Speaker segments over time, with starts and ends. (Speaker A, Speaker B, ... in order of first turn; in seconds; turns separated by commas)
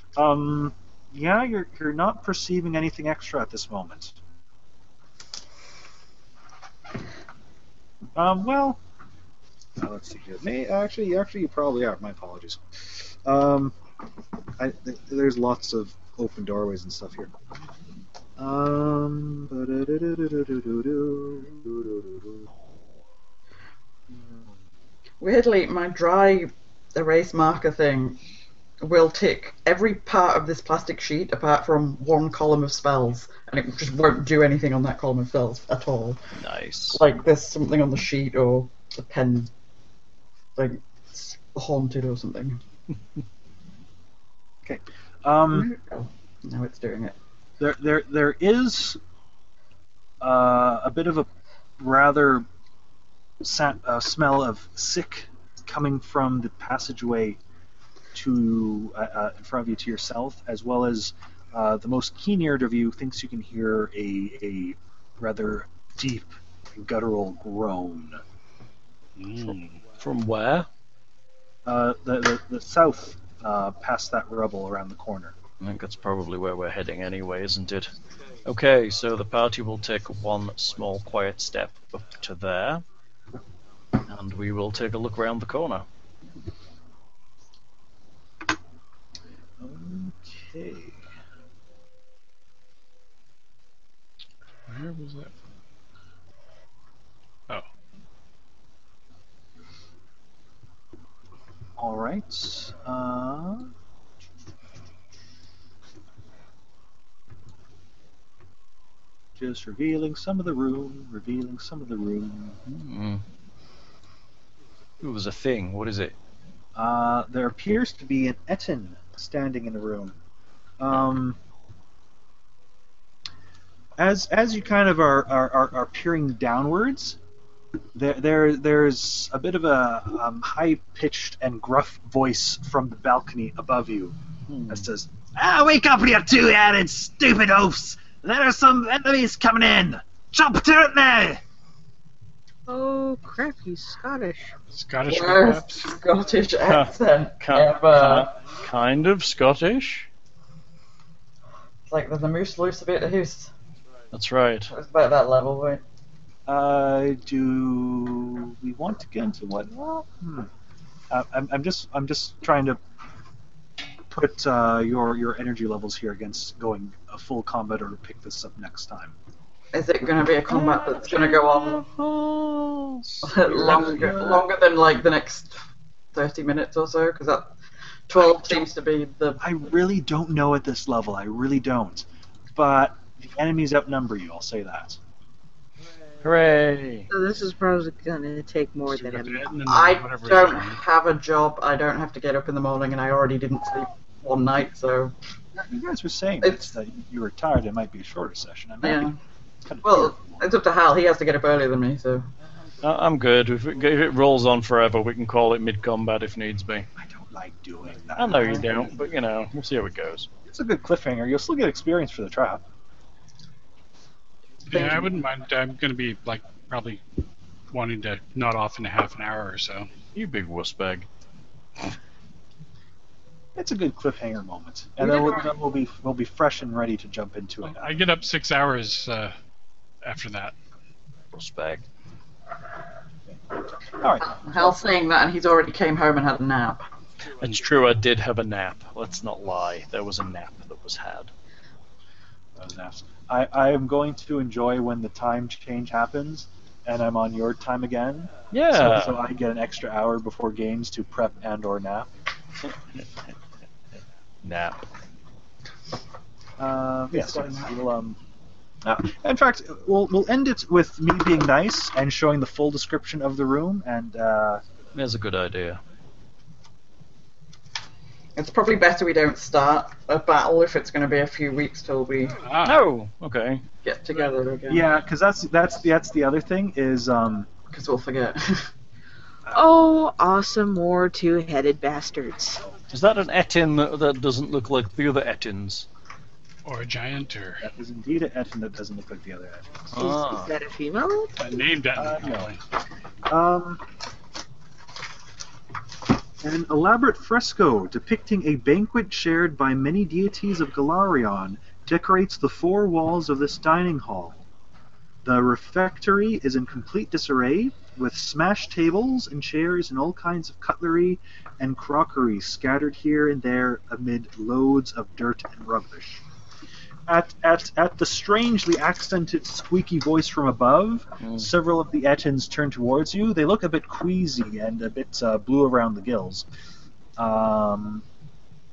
Speaker A: 0.1-4.2, Speaker A: 8.1-8.8, Speaker A: 9.8-13.8, Speaker A: 14.6-17.3, Speaker A: 18.4-22.4, Speaker A: 24.1-24.4, Speaker B: 25.2-28.2, Speaker B: 28.8-36.2, Speaker C: 36.4-37.0, Speaker B: 36.9-39.5, Speaker B: 40.6-42.6, Speaker A: 44.6-45.7, Speaker B: 45.5-47.1, Speaker A: 47.6-49.0, Speaker A: 50.2-51.3, Speaker A: 51.8-52.5, Speaker A: 53.4-57.4, Speaker A: 58.1-68.2, Speaker D: 69.2-69.8, Speaker C: 69.4-70.7, Speaker A: 71.7-75.3, Speaker C: 75.6-77.9, Speaker C: 78.4-82.8, Speaker C: 84.1-85.8, Speaker A: 89.6-91.0, Speaker D: 94.7-95.3, Speaker A: 101.8-103.7, Speaker A: 109.3-112.6, Speaker C: 112.7-113.2, Speaker C: 115.0-116.1, Speaker A: 116.8-120.2, Speaker A: 120.8-121.4, Speaker A: 124.0-127.2, Speaker A: 127.9-134.2, Speaker C: 134.5-134.8, Speaker A: 134.7-141.4, Speaker E: 142.7-144.6, Speaker D: 144.7-145.9, Speaker B: 145.1-148.3, Speaker C: 146.6-150.1, Speaker B: 151.9-153.5, Speaker C: 154.1-154.7, Speaker B: 154.7-155.8, Speaker A: 156.5-160.5, Speaker A: 161.1-162.8, Speaker A: 164.1-169.2, Speaker B: 169.7-171.8, Speaker C: 170.5-174.4, Speaker B: 173.2-175.6, Speaker A: 173.6-174.3, Speaker B: 176.1-177.5, Speaker B: 178.1-179.4, Speaker A: 178.3-178.7, Speaker A: 179.4-185.0, Speaker C: 186.2-187.1, Speaker E: 187.1-189.5, Speaker D: 188.8-190.8, Speaker B: 189.6-195.1, Speaker A: 195.5-200.4, Speaker B: 198.8-199.2, Speaker B: 199.8-202.2, Speaker C: 202.8-206.9, Speaker A: 206.9-208.9, Speaker C: 208.2-210.3, Speaker A: 210.4-212.7, Speaker D: 214.7-217.0, Speaker B: 214.7-215.1, Speaker D: 217.7-219.9, Speaker C: 220.1-221.1, Speaker A: 223.5-228.0, Speaker B: 225.0-225.5, Speaker D: 227.6-229.3, Speaker D: 230.0-230.5, Speaker C: 231.3-231.8, Speaker A: 234.0-234.4, Speaker B: 234.3-236.8, Speaker C: 237.4-241.3, Speaker A: 242.6-252.1, Speaker C: 248.5-249.2, Speaker C: 254.4-254.8, Speaker A: 256.6-258.2, Speaker B: 257.1-257.7, Speaker A: 258.8-264.6, Speaker C: 264.9-265.8, Speaker B: 268.4-272.4, Speaker D: 272.4-272.9, Speaker C: 272.6-273.6, Speaker B: 273.8-274.9, Speaker A: 274.7-277.5, Speaker B: 277.7-278.7, Speaker E: 279.5-282.6, Speaker C: 282.9-285.9, Speaker D: 286.6-287.6, Speaker A: 287.6-289.9, Speaker C: 289.9-290.5, Speaker E: 289.9-291.4, Speaker D: 291.4-292.6, Speaker A: 291.9-292.6, Speaker A: 293.3-293.8, Speaker A: 296.4-304.4, Speaker A: 305.2-316.2, Speaker A: 317.1-326.4, Speaker C: 321.2-321.5, Speaker A: 327.2-328.0